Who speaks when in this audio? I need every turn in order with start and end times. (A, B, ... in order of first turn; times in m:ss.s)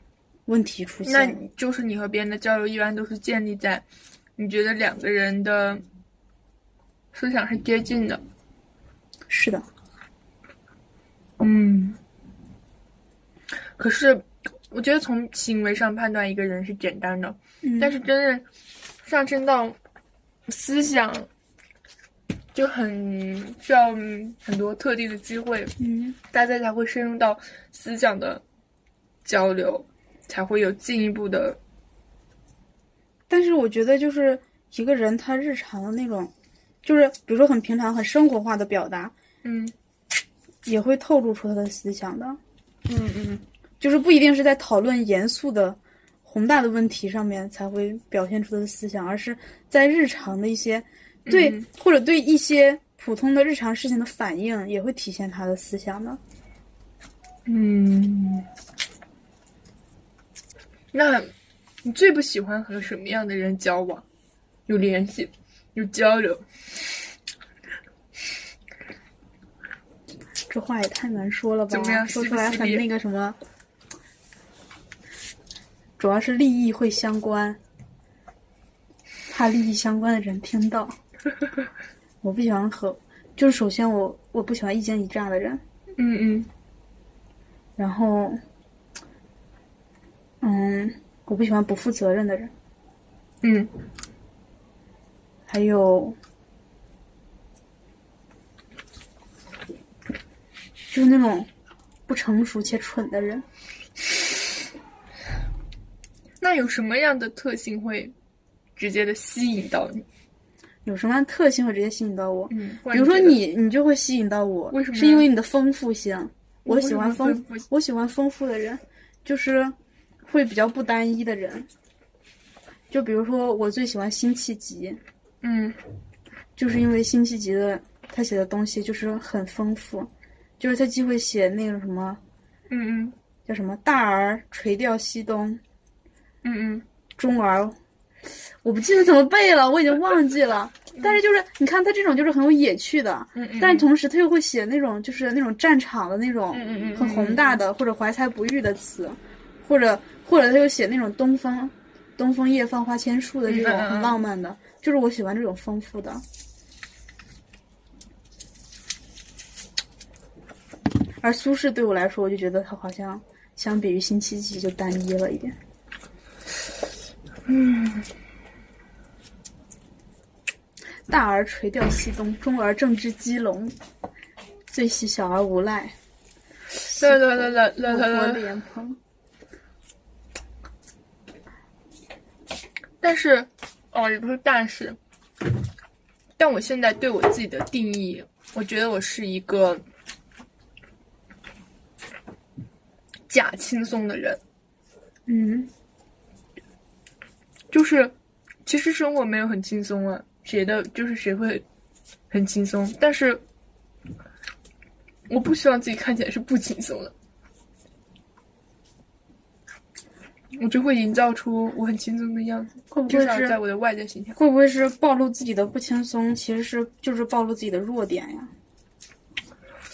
0:00.5-0:01.4 A
0:01.0-0:03.8 B
0:04.4-0:05.8 B
0:07.1-0:08.2 B
0:09.3-0:09.6 A
0:11.4-0:12.0 B
0:13.8-0:18.5 B
0:17.6-0:17.9 A
0:19.0-0:19.8 B
0:20.5-0:21.3 B
0:22.5-0:28.4 B
0:25.8-0:26.2 A
0:29.2-0:31.6 B
0:33.3-0:36.3 A
0:36.8-0:39.1 A
0:39.4-0:39.7 B
0:40.6-0:42.4 A
0:42.9-0:43.4 B
0:43.8-0:56.2 A
0:51.2-0:51.6 B
0:57.4-0:58.5 B
1:00.9-1:01.3 B
1:01.8-1:04.0 B
1:04.7-1:06.4 B
1:10.5-1:13.4 A
1:11.7-1:12.8 B
1:16.0-1:17.6 A
1:19.3-1:21.0 A
1:22.2-1:25.6 A
1:26.0-1:26.5 B
1:27.8-1:28.4 A
1:30.4-1:32.5 A
1:33.4-1:33.7 B
1:35.5-1:36.2 A
1:40.9-1:41.5 A
1:42.1-1:43.4 A
1:46.4-1:48.1 B
1:48.8-1:50.0 B
1:50.8-1:59.7 A
1:52.5-1:53.4 B
1:54.7-1:55.3 B
1:56.6-1:57.7 B
2:00.3-2:01.7 A
2:02.9-2:05.0 A
2:05.4-2:05.8 B
2:06.6-2:12.2 A
2:12.7-2:13.1 B
2:13.5-2:15.6 A
2:16.4-2:16.8 B
2:17.2-2:17.8 A
2:18.6-2:36.2 A
2:23.4-2:23.9 B
2:26.5-2:27.6 B
2:33.5-2:34.2 B
2:41.2-2:45.5 A
2:47.4-2:48.1 B
2:51.1-2:53.7 A
2:54.7-2:55.9 A
2:56.8-2:58.5 B
2:56.8-2:59.0 A
3:03.0-3:05.0 B
3:06.4-3:09.8 B
3:13.3-3:14.4 B
3:15.3-3:15.7 A
3:17.7-3:18.1 B
3:18.6-3:21.6 B
3:22.3-3:23.4 B
3:25.3-3:27.1 B
3:30.6-3:34.4 B
3:32.9-3:33.6 A
3:34.4-3:38.5 A